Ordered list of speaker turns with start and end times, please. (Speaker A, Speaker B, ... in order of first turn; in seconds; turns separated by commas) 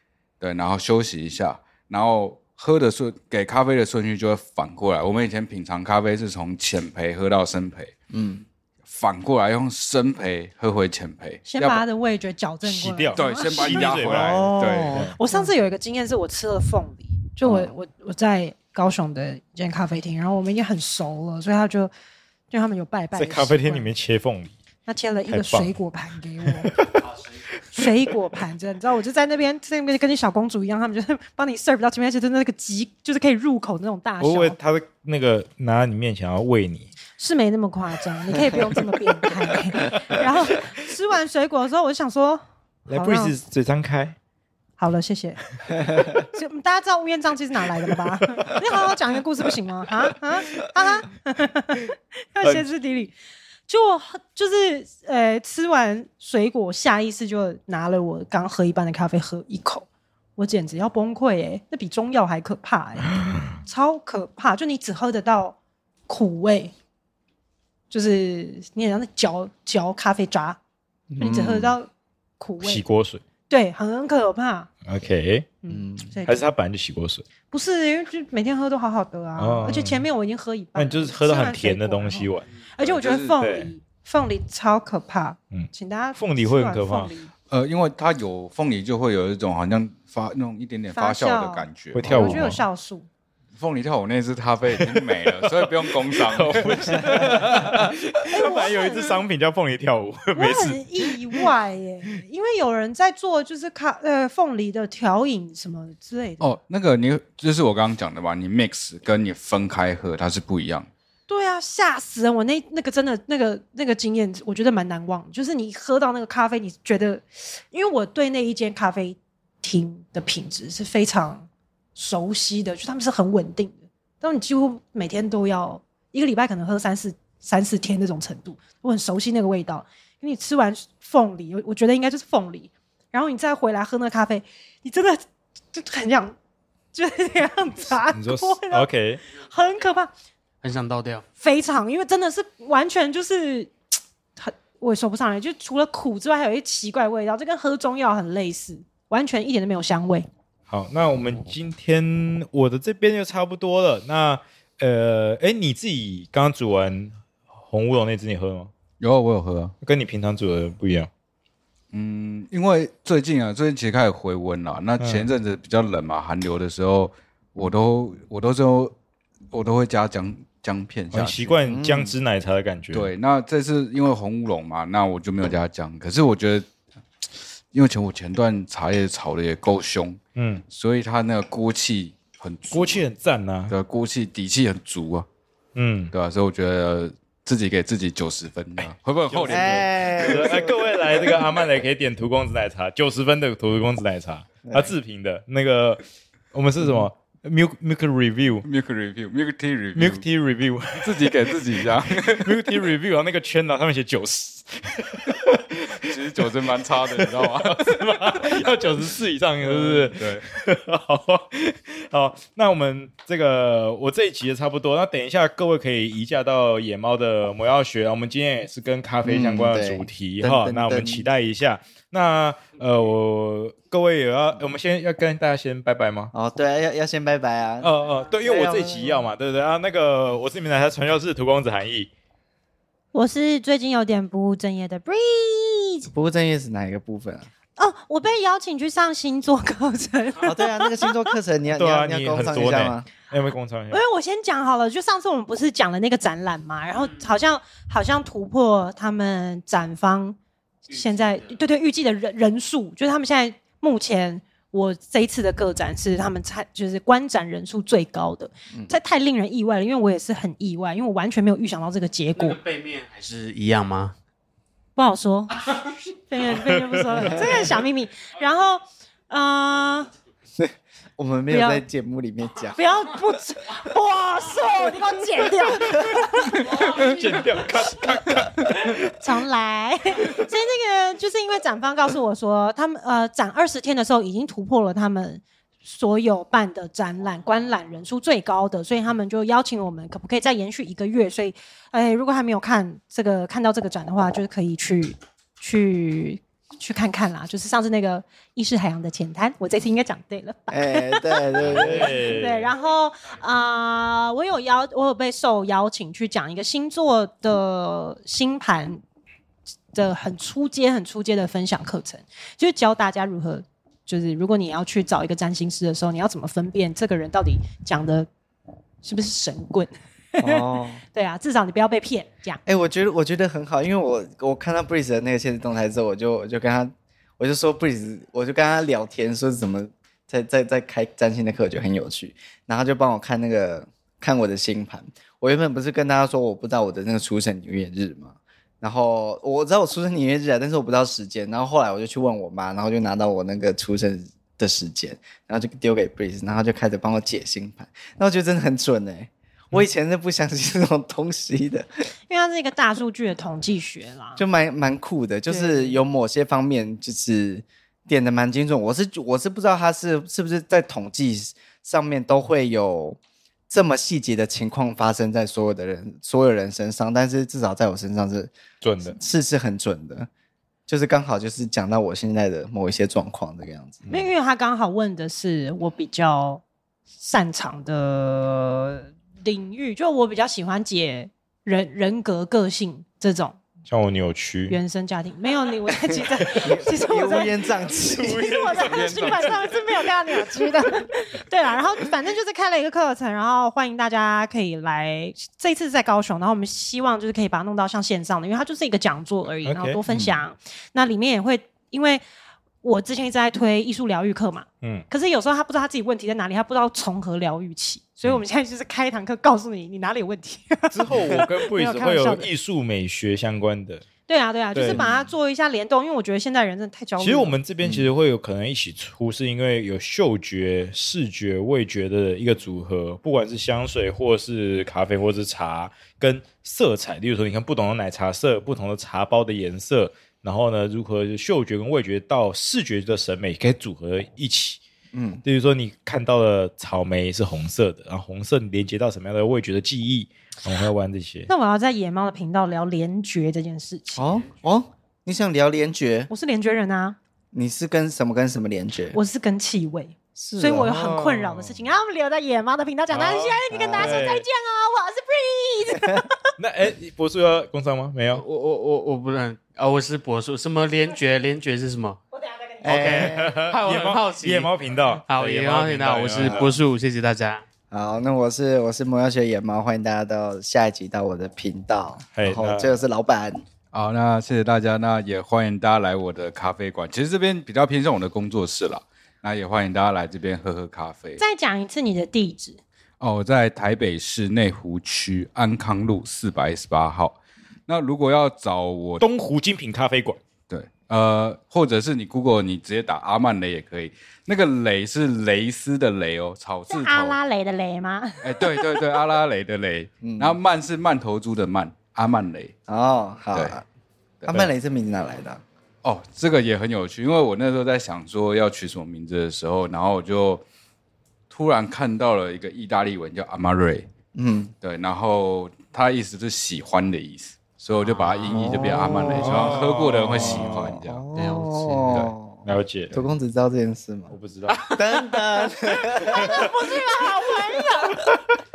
Speaker A: 0.4-7.9, Speaker B: 8.1-8.4, Speaker A: 8.9-11.8, Speaker C: 11.4-13.9, Speaker D: 12.6-15.2, Speaker A: 13.1-15.0, Speaker B: 14.1-15.4, Speaker C: 15.2-21.9, Speaker B: 17.4-17.7, Speaker C: 22.5-23.9, Speaker D: 23.1-24.5, Speaker C: 24.9-26.8, Speaker D: 25.3-25.8, Speaker D: 26.4-27.1, Speaker C: 27.7-34.6, Speaker D: 34.2-36.9, Speaker C: 37.2-43.3, Speaker D: 38.3-38.7, Speaker D: 39.7-40.2, Speaker D: 42.9-44.1, Speaker C: 44.8-53.1, Speaker D: 52.4-52.7, Speaker C: 53.7-59.9, Speaker C: 60.4-65.6, Speaker C: 66.1-66.7, Speaker C: 67.9-70.6, Speaker B: 71.1-71.8, Speaker C: 71.2-72.8, Speaker D: 72.6-73.2, Speaker C: 73.5-74.7, Speaker D: 74.8-75.5, Speaker C: 75.6-76.4, Speaker B: 75.7-76.1, Speaker D: 76.2-77.2, Speaker C: 77.5-87.3, Speaker D: 79.4-80.0, Speaker D: 80.8-82.5, Speaker A: 82.8-83.4, Speaker D: 83.4-83.7, Speaker D: 85.5-87.1, Speaker A: 87.5-92.5, Speaker C: 90.9-93.1, Speaker D: 91.9-92.6, Speaker A: 93.6-97.7, Speaker D: 94.7-101.5, Speaker C: 98.3-99.2, Speaker C: 100.3-106.5, Speaker A: 106.4-110.9, Speaker C: 111.3-135.2, Speaker C: 135.7-136.3, Speaker C: 136.9-140.1, Speaker D: 138.1-139.2, Speaker E: 140.6-141.2, Speaker C: 141.4-143.7, Speaker C: 144.4-150.3, Speaker D: 150.7-157.1, Speaker D: 157.7-158.7, Speaker A: 159.0-159.7, Speaker D: 159.8-161.1, Speaker A: 161.9-168.9, Speaker D: 165.0-165.3, Speaker A: 169.5-171.6, Speaker D: 171.1-173.1, Speaker B: 171.7-172.2, Speaker A: 172.9-176.7, Speaker A: 177.7-183.0, Speaker D: 180.3-180.6, Speaker D: 182.7-183.7, Speaker A: 183.7-185.3, Speaker D: 185.7-186.1, Speaker A: 186.1-190.5, Speaker D: 189.3-196.0, Speaker B: 189.5-191.3, Speaker B: 194.6-194.9, Speaker D: 196.5-198.7, Speaker A: 198.6-200.2, Speaker D: 199.9-226.3, Speaker A: 201.0-202.6, Speaker A: 206.1-208.7, Speaker A: 209.6-210.4, Speaker B: 219.2-221.3, Speaker B: 226.3-227.9, Speaker D: 227.8-232.1, Speaker B: 228.4-229.3, Speaker C: 233.1-236.1, Speaker B: 236.1-237.5, Speaker C: 237.8-241.3, Speaker B: 240.4-243.1, Speaker D: 241.7-244.0, Speaker C: 243.9-250.4, Speaker C: 250.9-262.6, Speaker E: 250.9-251.5, Speaker E: 262.4-264.1, Speaker C: 264.9-270.1, Speaker D: 266.6-267.5, Speaker B: 270.6-272.8, Speaker C: 271.5-271.8, Speaker C: 272.8-277.1, Speaker D: 276.5-279.1, Speaker C: 279.1-309.0, Speaker B: 300.7-302.1, Speaker D: 301.6-302.7, Speaker C: 309.9-318.3, Speaker C: 319.0-322.6, Speaker B: 320.4-321.0, Speaker B: 322.6-351.9, Speaker C: 352.3-354.4, Speaker B: 354.4-363.2, Speaker C: 355.5-356.0, Speaker B: 363.7-370.3, Speaker D: 368.8-369.2, Speaker B: 370.9-374.0, Speaker C: 374.1-376.6, Speaker C: 377.2-383.6, Speaker D: 383.9-384.8, Speaker C: 384.7-387.6, Speaker B: 386.1-389.3, Speaker D: 388.0-390.0, Speaker C: 388.2-402.2, Speaker D: 399.6-400.0, Speaker B: 400.1-400.4, Speaker C: 402.8-412.5, Speaker D: 410.9-414.1, Speaker C: 414.3-417.6, Speaker D: 414.7-415.1, Speaker B: 414.9-415.3, Speaker D: 417.2-434.8, Speaker B: 417.8-418.1, Speaker B: 435.1-435.4, Speaker D: 435.4-441.5, Speaker C: 441.5-444.3, Speaker B: 444.1-446.3, Speaker C: 446.3-447.2, Speaker B: 447.5-449.2, Speaker C: 449.1-456.4, Speaker B: 450.4-451.5, Speaker D: 453.1-454.4, Speaker B: 453.7-454.2, Speaker D: 456.6-458.4, Speaker E: 458.3-462.2, Speaker E: 462.8-464.7, Speaker B: 462.8-463.6, Speaker D: 463.0-466.8, Speaker E: 465.2-467.6, Speaker B: 466.4-466.6, Speaker B: 467.9-473.6, Speaker D: 472.3-472.9, Speaker A: 473.9-481.4, Speaker C: 481.4-482.8, Speaker A: 483.2-489.2, Speaker D: 489.2-490.4, Speaker A: 490.7-497.4, Speaker C: 496.9-499.0, Speaker A: 498.4-502.7, Speaker B: 500.2-500.6, Speaker B: 502.9-503.8, Speaker B: 504.4-505.6, Speaker A: 506.0-510.6, Speaker A: 511.5-514.1, Speaker B: 514.3-514.7, Speaker A: 514.8-521.3, Speaker E: 518.0-519.1, Speaker B: 518.5-526.7, Speaker D: 519.2-521.0, Speaker E: 521.4-522.1, Speaker D: 522.6-523.2, Speaker D: 524.3-525.0, Speaker C: 526.1-528.2, Speaker D: 526.3-526.6